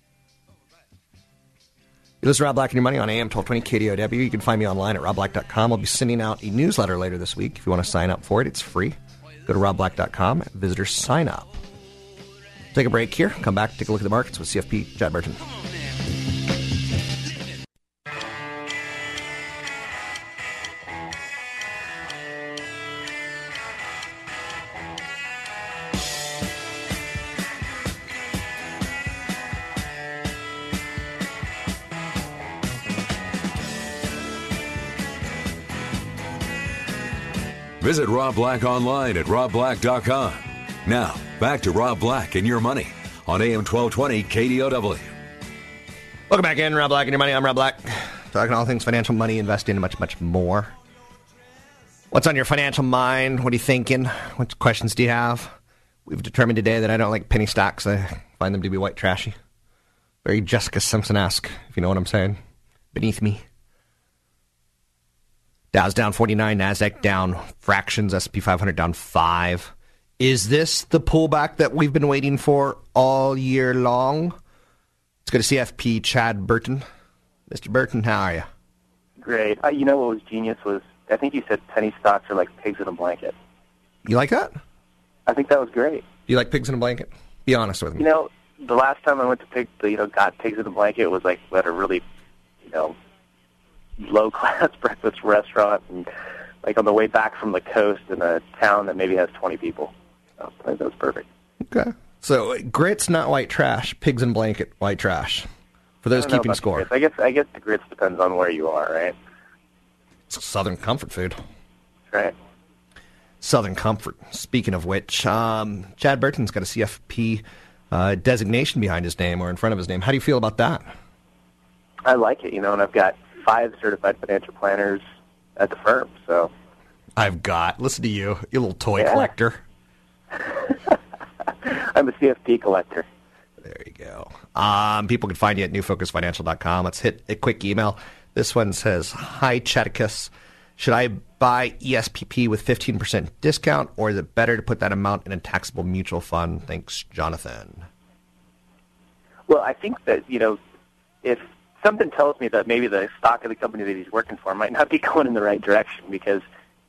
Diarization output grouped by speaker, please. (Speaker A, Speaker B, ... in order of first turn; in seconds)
Speaker A: 2.2-11.6, 12.7-15.4, 46.3-50.7, 52.1-59.4, 60.2-62.4, 62.9-63.4, 65.7-74.4, 75.2-76.8, 77.5-78.5, 84.0-84.6, 86.3-88.1, 101.6-105.5, 106.0-106.9, 110.3-111.4, 113.4-120.9, 127.2-129.6, 133.6-147.9
Speaker B: 37.8-45.1
Speaker C: 79.2-83.3, 85.3-86.0, 88.0-92.0, 92.6-93.0, 94.0-96.1, 96.6-101.3, 106.1-109.1, 122.0-125.0, 125.6-126.5, 129.0-129.3, 130.4-130.9, 131.5-133.1, 149.5-150.6, 151.2-156.4